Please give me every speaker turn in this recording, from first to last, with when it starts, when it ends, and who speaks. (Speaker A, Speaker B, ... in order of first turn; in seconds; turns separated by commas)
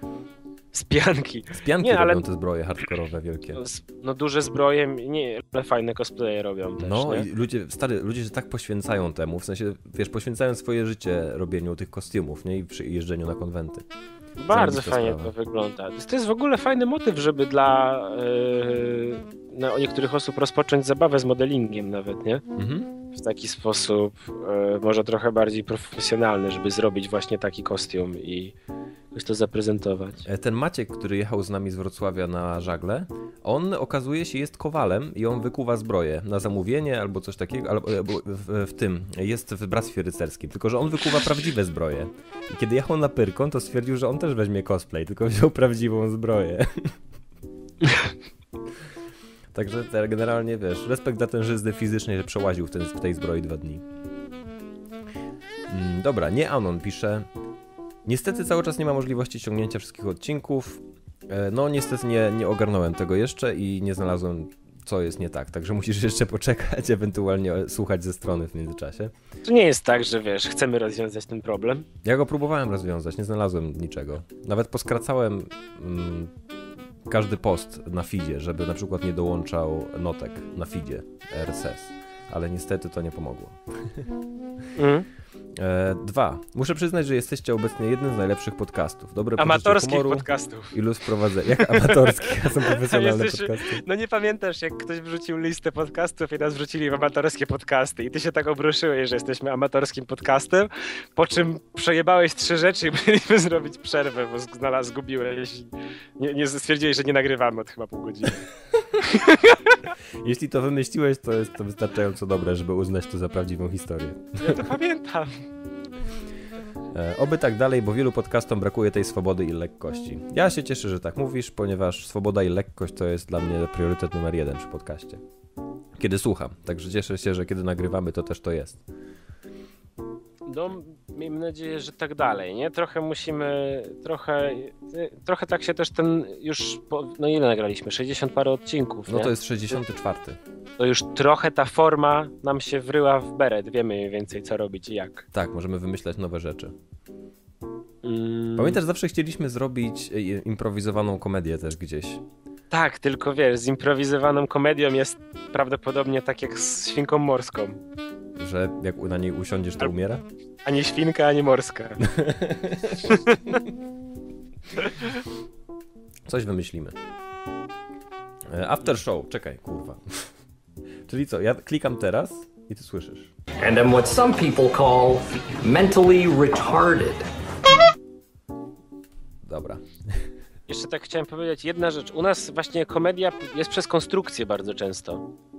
Speaker A: 0.7-2.2, Speaker B: 1.5-3.6, Speaker A: 3.5-7.3, Speaker B: 6.8-13.8, Speaker A: 14.4-22.4, Speaker B: 14.5-15.3, Speaker B: 22.6-22.9, Speaker A: 23.1-28.5, Speaker A: 29.1-30.2, Speaker B: 30.2-47.0, Speaker B: 49.5-53.8, Speaker B: 55.7-57.3, Speaker B: 58.0-69.1, Speaker A: 69.4-71.9, Speaker B: 72.0-76.3, Speaker B: 77.1-83.6, Speaker A: 84.8-85.1, Speaker B: 85.5-93.8, Speaker A: 89.4-90.8, Speaker A: 91.6-108.5, Speaker A: 109.0-109.8, Speaker B: 110.2-114.7, Speaker A: 114.4-115.4, Speaker B: 116.9-125.2, Speaker B: 126.0-128.8, Speaker A: 130.5-139.3, Speaker B: 139.1-140.4, Speaker A: 140.8-145.3, Speaker B: 145.3-146.7, Speaker A: 148.0-148.8, Speaker B: 148.6-152.2, Speaker A: 152.7-157.8, Speaker B: 158.4-160.2, Speaker A: 160.6-162.0, Speaker B: 162.0-163.1, Speaker A: 163.0-163.5, Speaker B: 166.2-167.0, Speaker B: 168.5-170.3, Speaker B: 171.1-173.3, Speaker C: 173.6-177.2, Speaker B: 179.4-180.2, Speaker A: 180.7-185.3